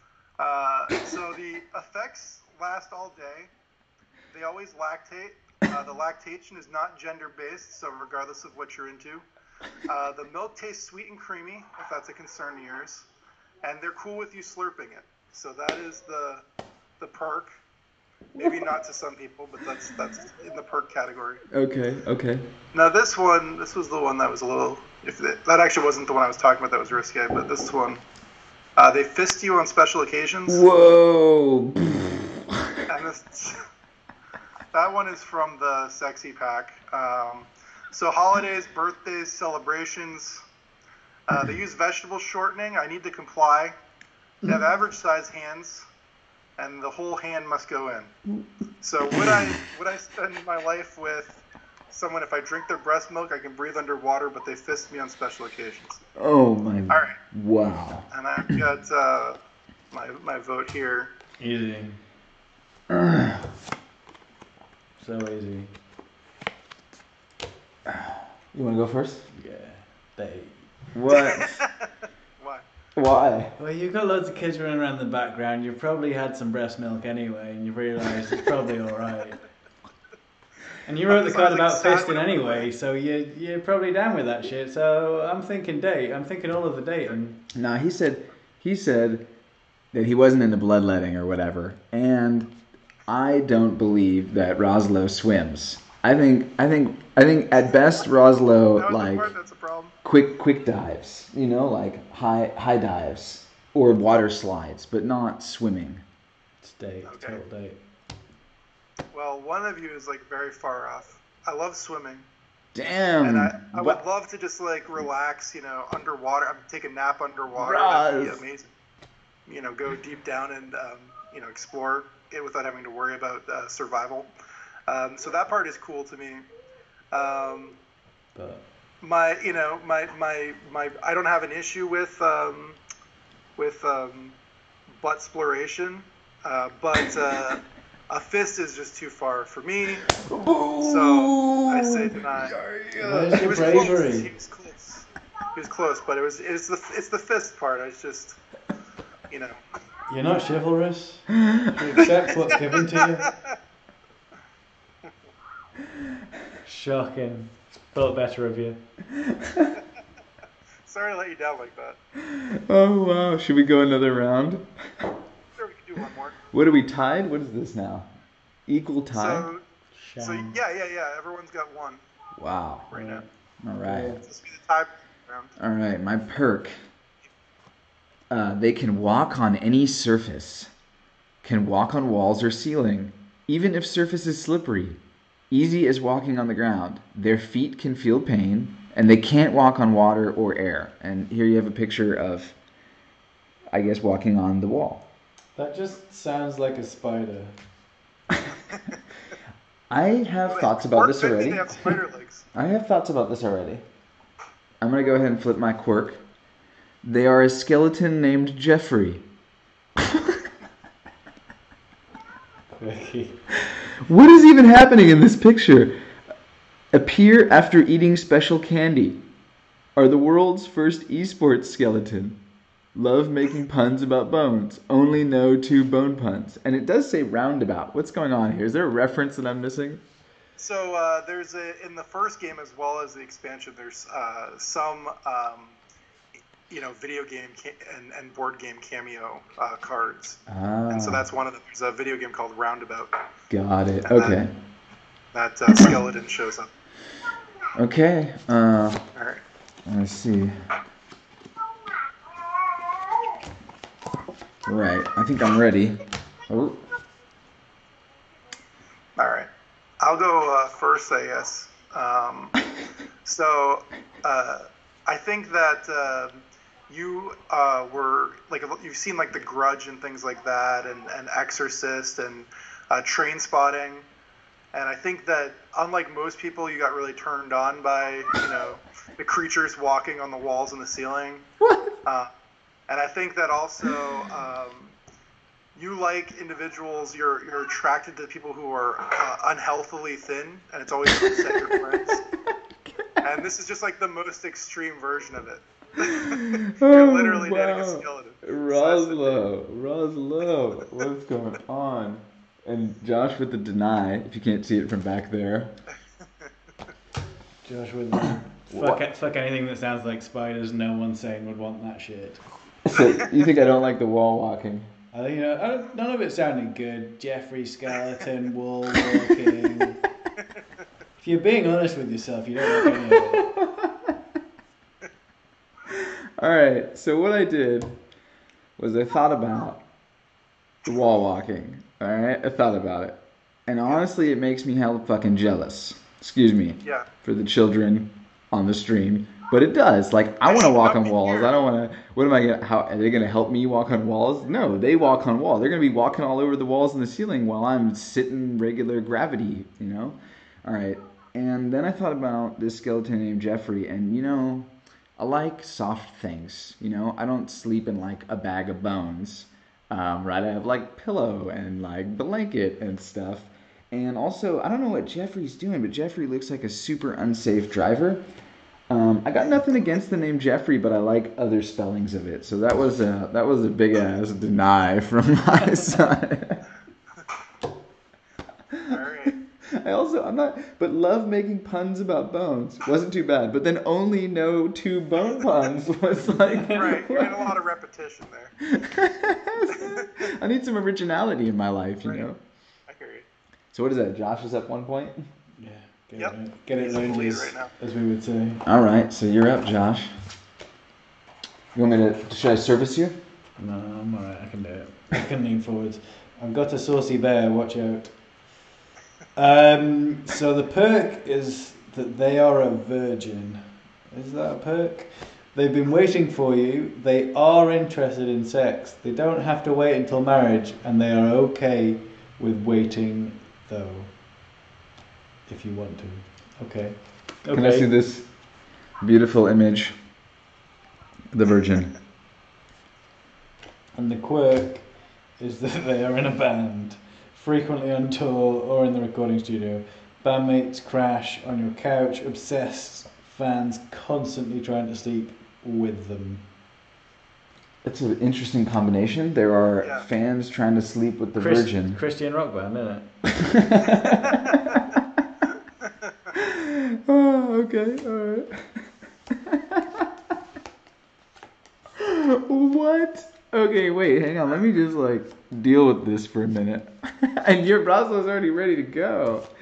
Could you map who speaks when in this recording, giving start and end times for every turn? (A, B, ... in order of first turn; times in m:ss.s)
0:00.4-0:03.5 A
0:04.3-0:09.2 A
0:09.9-0:13.0 A
0:13.6-0:16.4 A
0:17.0-0:17.5 A
0:18.3-0:18.6 B
0:18.4-0:21.4 A
0:21.5-0:22.5 B
0:22.7-0:28.0 A
0:28.8-0:30.6 A
0:30.5-0:32.8 B
0:32.9-0:33.6 A
0:34.7-0:40.4 A
0:41.3-0:43.7 A
0:44.4-0:45.8 A
0:46.6-0:48.1 A
0:48.8-0:56.0 A
0:49.1-0:49.5 B
0:56.2-0:58.6 B
0:56.9-0:57.2 A
0:58.1-0:59.4 A
0:59.9-1:01.1 A
1:01.4-1:02.0 C
1:02.9-1:03.4 B
1:05.0-1:05.7 C
1:07.8-1:09.3 B
1:09.3-1:10.6 C
1:10.9-1:11.6 B
1:11.3-1:11.9 A
1:12.4-1:12.6 A
1:13.0-1:13.5 B
1:13.6-1:19.4 C
1:20.8-1:27.4 C
1:21.1-1:22.7 A
1:27.5-1:29.3 B
1:29.9-1:32.5 B
1:33.1-1:39.3 B
1:38.8-1:39.9 A
1:40.0-1:46.0 B
1:46.6-1:47.8 C
1:47.0-1:47.4 A
1:49.1-1:52.3 A
1:52.7-1:54.0 B
1:53.2-1:58.7 A
1:57.5-1:58.4 B
1:59.5-2:04.3 A
2:04.9-2:06.4 A
2:07.1-2:07.8 A
2:08.3-2:08.6 C
2:09.0-2:12.8 A
2:13.6-2:14.4 A
2:15.0-2:20.0 A
2:20.1-2:23.9 B
2:20.8-2:22.6 A
2:23.0-2:24.3 C
2:23.3-2:28.4 A
2:29.3-2:29.6 A
2:30.1-2:33.2 C
2:31.3-2:31.8 B
2:32.7-2:33.5 A
2:36.6-2:38.8 C
2:39.2-2:39.7 B
2:40.8-2:42.0 A
2:42.2-2:45.1 B
2:45.6-2:46.4 A
2:46.5-2:48.1 B
2:48.7-2:49.4 B
2:49.1-2:49.6 A
2:49.9-2:50.6 C
2:50.2-2:52.0 A
2:52.4-2:52.9 B
2:52.9-2:53.2 A
2:52.9-2:53.2 C
2:53.6-2:54.2 B
2:53.8-2:54.2 C
2:54.2-2:55.5 A
2:55.6-2:56.7 B
2:58.3-3:00.7 B
3:01.4-3:05.0 B
3:05.5-3:12.6 B
3:13.7-3:15.0 B
3:15.6-3:17.6 C
3:18.7-3:19.0 A
3:19.9-3:21.6 B
3:20.4-3:22.4 A
3:22.5-3:23.8 B
3:24.8-3:26.2 B
3:27.0-3:29.2 B
3:30.0-3:30.4 B
3:32.7-3:33.4 C
3:34.0-3:36.0 B
3:36.9-3:39.2 B
3:40.0-3:42.4 B
3:42.9-3:50.0 B
3:50.6-3:55.8 A
3:56.7-4:00.4 A
4:00.5-4:01.2 B
4:00.9-4:03.1 A
4:03.5-4:04.5 B
4:04.0-4:04.4 A
4:05.3-4:06.7 A
4:07.8-4:09.0 B
4:09.1-4:09.4 A
4:09.8-4:10.5 B
4:14.6-4:16.8 B
4:19.2-4:19.5 A
4:20.0-4:22.6 A
4:23.2-4:34.1 A
4:34.7-4:41.4 A
4:41.6-4:41.9 B
4:42.9-4:45.0 A
4:45.8-4:52.2 A
4:51.5-4:52.0 B
4:53.2-4:59.5 A
4:56.1-5:05.8 B
5:07.6-5:12.4 C
5:08.7-5:09.0 B
5:12.8-5:14.9 B
5:15.1-5:20.0 C
5:21.2-5:23.4 C
5:22.8-5:24.2 B
5:25.9-5:28.0 B
5:28.8-5:29.8 B
5:30.8-6:08.2 B
5:40.4-5:41.5 A
6:08.9-6:16.6 B
6:18.9-6:19.4 A
6:19.7-6:27.3 B
6:26.3-6:27.0 C
6:26.7-6:28.5 A
6:28.6-6:32.4 B
6:29.7-6:30.1 A
6:32.0-6:32.3 A
6:32.9-6:33.3 A
6:33.7-6:35.2 B
6:35.6-6:38.6 C
6:36.2-6:37.7 A
6:38.6-6:40.1 B
6:41.7-6:43.2 B
6:43.6-6:48.2 C
6:49.4-7:04.2 C
7:05.5-7:07.9 C
7:07.5-7:08.3 B
7:09.0-7:09.9 B
7:11.3-7:11.9 B
7:13.9-7:26.4 C
7:27.8-7:32.0 B
7:29.8-7:30.0 A
7:31.4-7:33.1 C
7:33.3-7:34.8 B
7:33.9-7:34.8 A
7:35.8-7:36.3 A
7:36.3-7:40.1 B
7:42.0-7:49.5 B